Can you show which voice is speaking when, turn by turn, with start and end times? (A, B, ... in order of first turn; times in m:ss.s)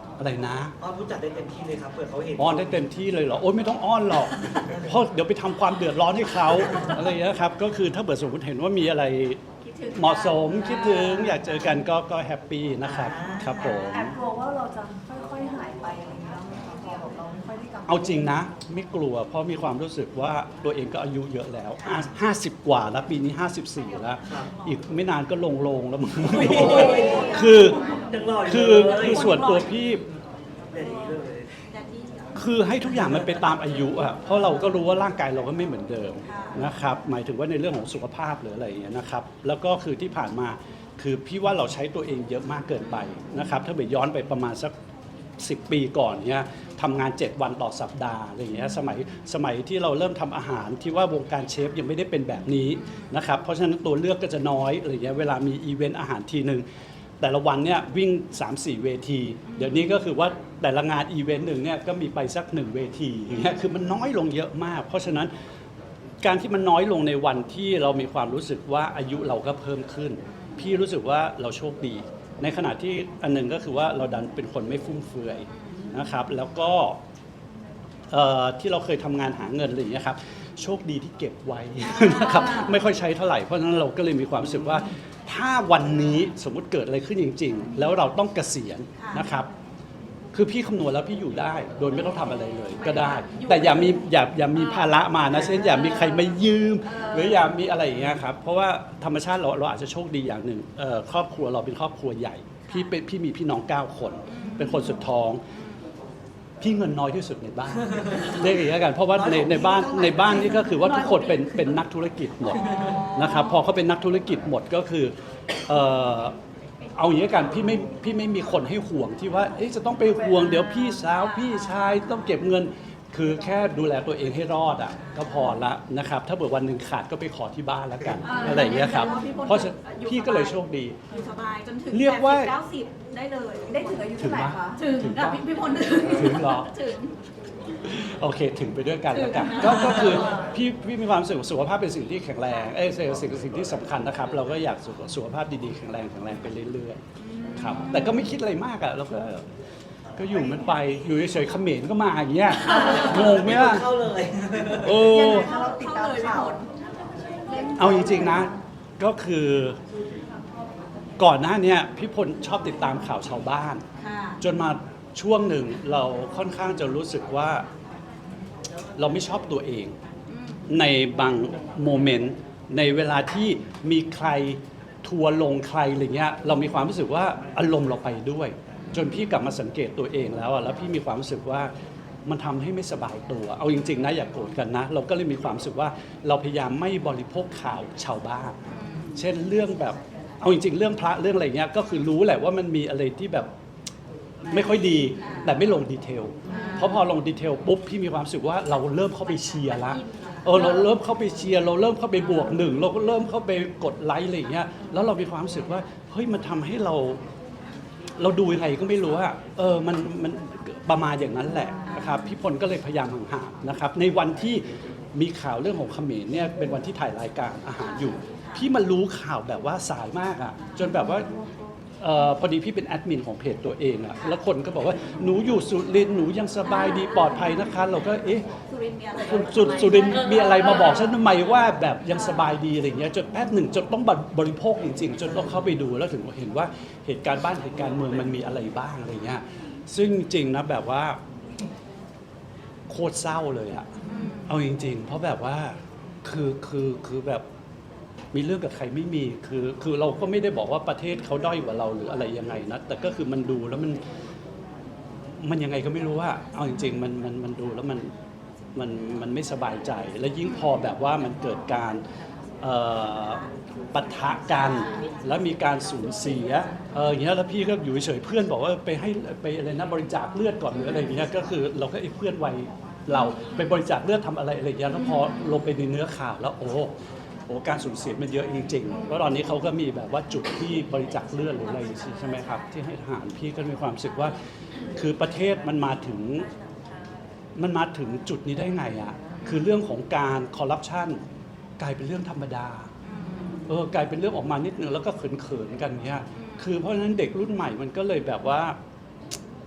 0:00.2-0:00.7 A
0:00.8-0:02.8 B
0:02.4-0:09.4 A
0:04.5-0:04.8 B
0:09.6-0:11.5 C
0:09.9-0:14.2 A
0:12.8-0:13.9 B
0:13.9-0:18.3 D
0:17.9-0:27.8 A
0:21.8-0:22.1 B
0:24.2-0:24.5 B
0:26.2-0:29.6 B
0:26.8-0:27.7 C
0:28.4-0:30.0 A
0:29.0-0:29.6 C
0:30.7-0:31.6 B
0:31.7-0:32.3 C
0:32.3-0:44.7 A
0:33.0-0:33.3 B
0:36.2-0:36.6 C
0:45.4-0:56.6 A
0:57.2-1:05.3 A
1:06.2-1:17.0 A
1:15.6-1:15.9 C
1:18.1-1:29.5 A
1:22.0-1:22.8 C
1:29.0-1:29.3 C
1:30.3-1:45.4 A
1:32.8-1:34.0 C
1:34.6-1:34.9 C
1:35.5-1:36.2 C
1:36.8-1:37.5 C
1:44.3-1:45.0 C
1:46.6-1:55.1 A
1:47.9-1:48.4 B
1:49.1-1:50.7 B
1:50.8-1:51.5 C
1:52.6-1:53.6 C
1:52.6-1:53.0 B
1:55.7-1:56.3 A
1:57.0-2:11.0 A
2:01.1-2:01.9 C
2:08.2-2:14.2 C
2:08.3-2:09.3 D
2:11.9-2:12.5 A
2:13.7-2:14.9 D
2:14.2-2:16.7 A
2:14.7-2:17.1 C
2:17.8-2:27.0 A
2:19.1-2:20.4 C
2:27.2-2:28.2 C
2:27.6-2:29.4 A
2:30.1-2:30.5 B
2:30.2-2:33.9 A
2:32.6-2:35.0 B
2:34.8-2:35.5 A
2:34.9-2:36.6 D
2:35.1-2:36.7 C
2:37.4-2:38.5 C
2:37.8-2:39.8 A
2:41.2-2:43.8 A
2:44.0-2:44.4 C
2:44.4-2:47.6 A
2:49.0-2:50.0 A
2:50.3-2:50.6 C
2:50.7-3:01.7 A
3:02.2-3:08.6 A
3:08.7-3:09.2 C
3:09.1-3:13.5 A
3:14.5-3:27.2 A
3:15.2-3:15.6 C
3:16.5-3:17.0 C
3:19.5-3:20.9 C
3:28.2-3:41.3 A
3:31.8-3:32.3 C
3:40.6-3:40.9 C
3:42.0-3:48.4 A
3:46.6-3:47.3 C
3:48.7-3:51.2 C
3:49.1-4:01.2 A
4:02.9-4:03.9 A
4:04.0-4:04.5 C
4:04.4-4:07.4 A
4:08.3-4:14.0 A
4:15.4-4:18.1 A
4:18.7-4:22.0 A
4:22.6-4:36.9 A
4:24.6-4:25.2 C
4:37.5-4:44.4 A
4:44.9-4:46.5 A
4:47.6-4:51.2 A
4:51.8-4:52.9 A
4:53.0-4:53.6 C
4:53.7-4:58.8 A
4:56.4-4:56.6 C